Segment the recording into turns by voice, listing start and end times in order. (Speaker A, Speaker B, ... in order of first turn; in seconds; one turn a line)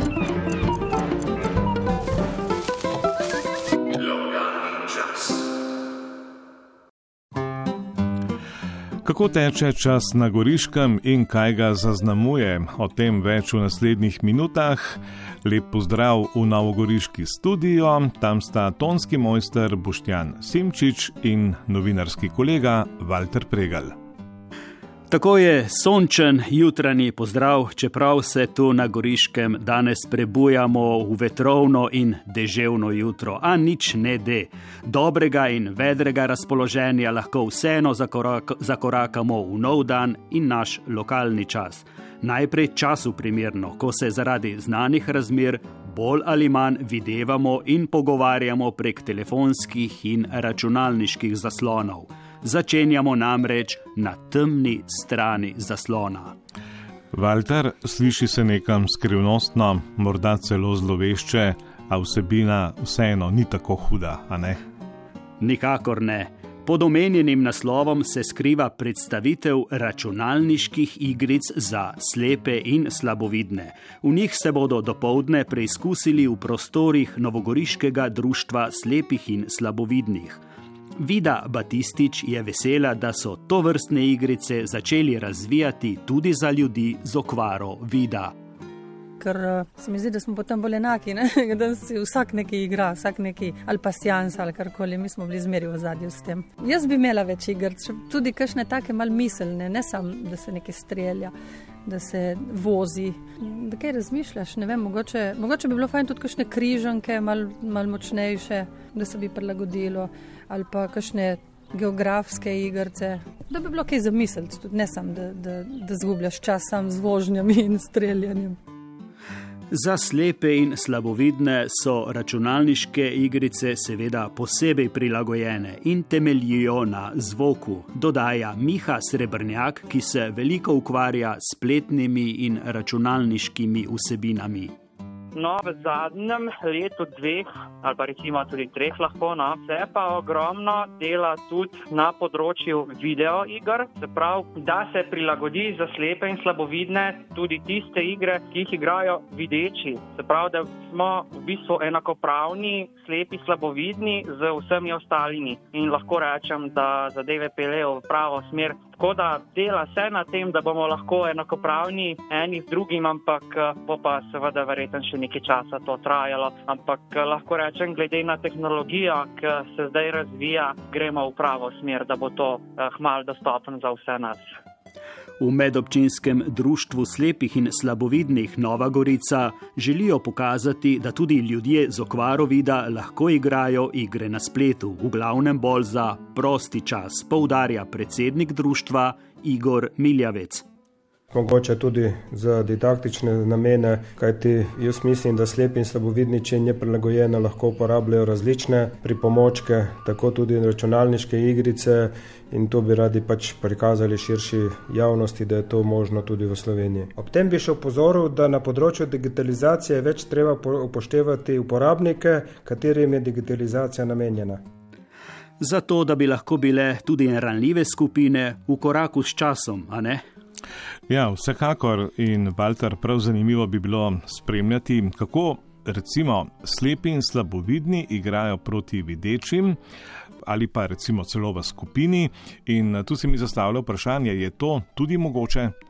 Speaker A: 9.0-23.9
Speaker B: 25.1-56.3
Speaker A: 57.1-64.6
Speaker B: 65.4-80.4
Speaker B: 81.0-88.3
Speaker C: 89.2-101.3
Speaker C: 101.8-118.6
Speaker B: 119.7-134.7
Speaker D: 135.3-174.5
Speaker B: 175.4-190.6
Speaker E: 191.3-214.6
Speaker B: 215.6-220.2
Speaker A: 221.1-229.8
Speaker A: 230.5-235.7